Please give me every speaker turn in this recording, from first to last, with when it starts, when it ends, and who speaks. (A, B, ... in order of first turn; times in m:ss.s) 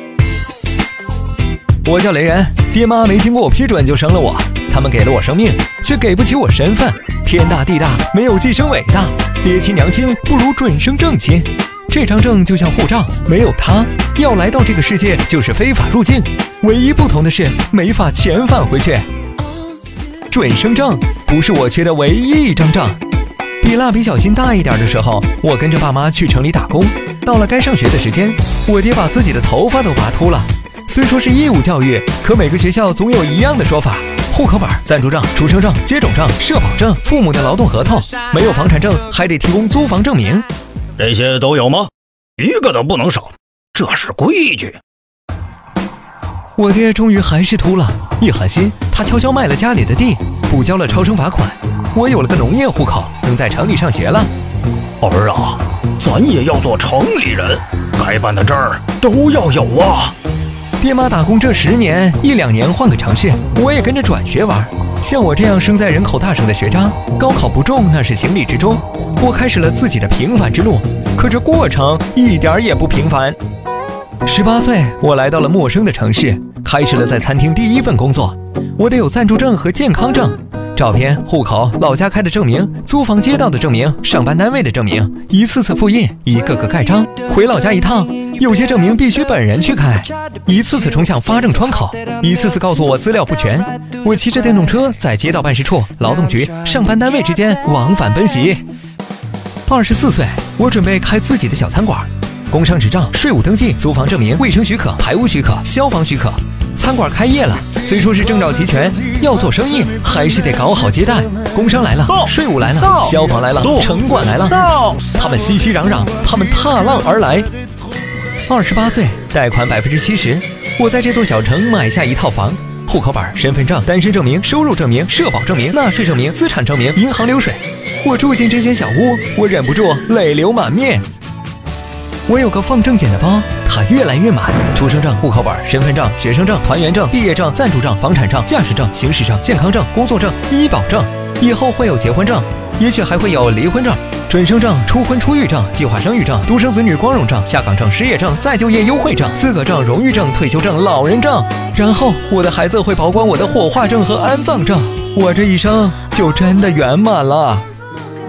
0:01.8-0:19.1 A
0:20.3-0:23.0 A
0:23.6-0:40.5 A
0:41.0-0:44.8 B
0:46.6-0:54.3 A
0:55.0-1:00.2 B
1:00.8-1:13.4 A
1:14.2-1:38.6 A
1:39.7-1:57.5 A
1:52.1-1:53.9 B
1:54.5-1:55.0 B
1:58.5-2:11.1 A
2:12.3-2:37.7 A